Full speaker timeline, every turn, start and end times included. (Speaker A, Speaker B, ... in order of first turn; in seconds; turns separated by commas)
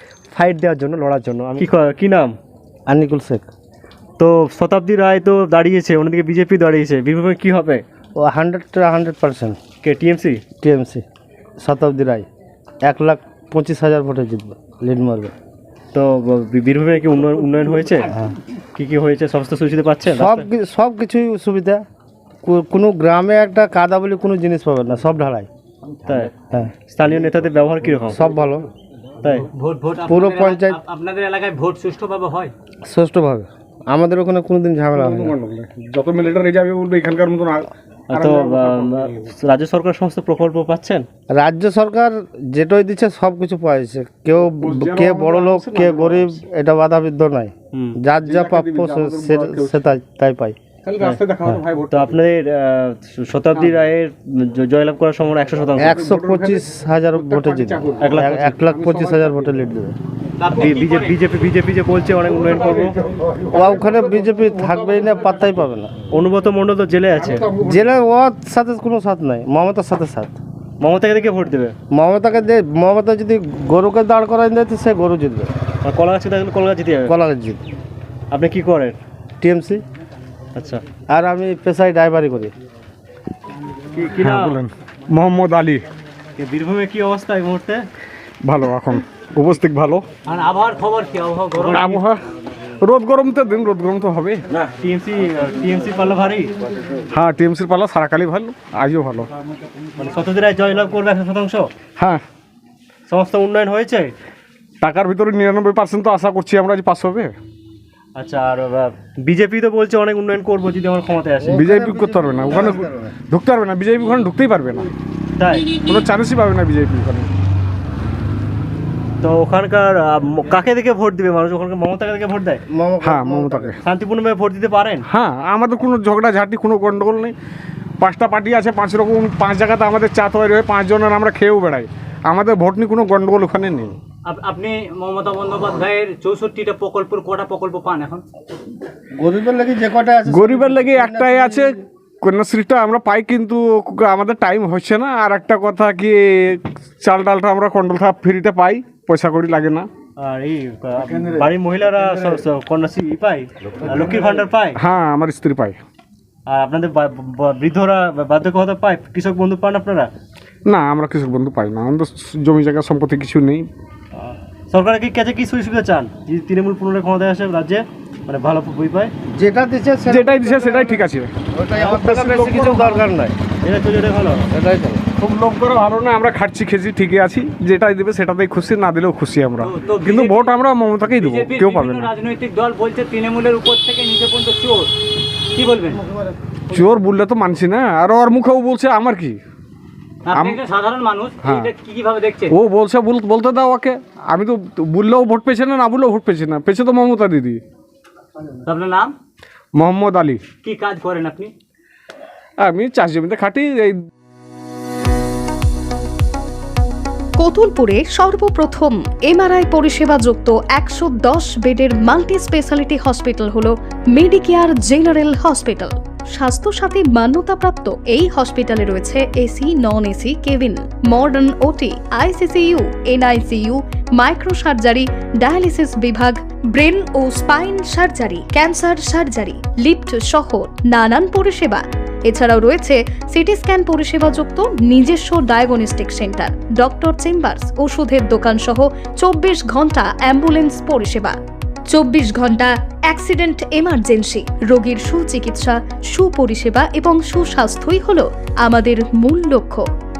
Speaker A: 0.3-2.4, Speaker B: 2.9-3.5, Speaker A: 4.2-7.8, Speaker B: 8.2-9.6, Speaker A: 9.8-10.4, Speaker B: 10.6-11.0, Speaker B: 11.6-12.3, Speaker B: 12.8-15.3, Speaker A: 15.9-18.1, Speaker A: 18.8-20.5, Speaker B: 20.1-21.8, Speaker B: 22.4-25.5, Speaker A: 26.1-26.3, Speaker A: 26.9-28.2, Speaker B: 28.1-28.7, Speaker A: 29.2-29.5, Speaker C: 29.5-32.5, Speaker B: 30.0-30.8, Speaker B: 32.9-35.4, Speaker D: 35.0-39.2, Speaker A: 38.1-41.1, Speaker B: 41.3-50.6, Speaker D: 44.6-46.4, Speaker D: 48.2-49.9, Speaker D: 50.8-52.2, Speaker A: 51.0-56.0, Speaker D: 53.5-53.8, Speaker B: 55.8-60.0, Speaker D: 55.8-59.5, Speaker A: 58.0-58.6, Speaker C: 60.4-61.2, Speaker A: 60.6-63.0, Speaker D: 62.5-65.6, Speaker B: 63.5-65.9, Speaker A: 66.1-67.5, Speaker D: 67.2-67.9, Speaker B: 67.6-70.4, Speaker A: 70.8-71.8, Speaker B: 71.9-75.5, Speaker A: 75.8-77.2, Speaker B: 77.1-77.6, Speaker A: 78.3-79.0, Speaker B: 79.4-79.8, Speaker A: 80.5-80.8, Speaker B: 81.1-82.5, Speaker A: 83.9-84.6, Speaker D: 84.2-85.8, Speaker A: 86.4-87.9, Speaker D: 88.4-90.0, Speaker C: 90.2-92.0, Speaker A: 91.5-92.0, Speaker D: 91.7-92.2, Speaker D: 92.8-94.4, Speaker A: 94.5-96.5, Speaker D: 97.1-99.3, Speaker A: 100.0-101.7, Speaker D: 102.0-102.2, Speaker A: 103.1-104.1, Speaker D: 104.8-107.3, Speaker A: 108.2-111.7, Speaker B: 111.4-113.2, Speaker D: 111.5-114.9, Speaker A: 115.4-115.7, Speaker D: 115.8-117.3, Speaker A: 119.2-122.6, Speaker B: 122.7-123.8, Speaker D: 123.0-123.8, Speaker A: 123.8-125.1, Speaker D: 125.1-127.3, Speaker D: 128.0-134.0, Speaker C: 134.2-138.2, Speaker B: 139.2-141.8, Speaker D: 140.3-149.9, Speaker A: 150.2-154.8, Speaker D: 154.8-155.8, Speaker A: 156.5-160.1, Speaker D: 160.7-163.7, Speaker A: 164.2-169.1, Speaker B: 169.3-173.4, Speaker D: 170.1-173.1, Speaker A: 173.6-174.5, Speaker B: 174.5-175.0, Speaker D: 175.2-182.1, Speaker C: 179.6-180.6, Speaker C: 181.1-184.9, Speaker C: 185.5-186.0, Speaker B: 186.0-186.8, Speaker D: 186.7-189.4, Speaker C: 190.3-192.6, Speaker D: 191.4-191.7, Speaker D: 192.5-197.6, Speaker C: 198.6-199.2, Speaker D: 199.8-200.4, Speaker C: 200.6-201.5, Speaker D: 202.6-204.1, Speaker E: 207.4-241.4, Speaker E: 241.9-249.9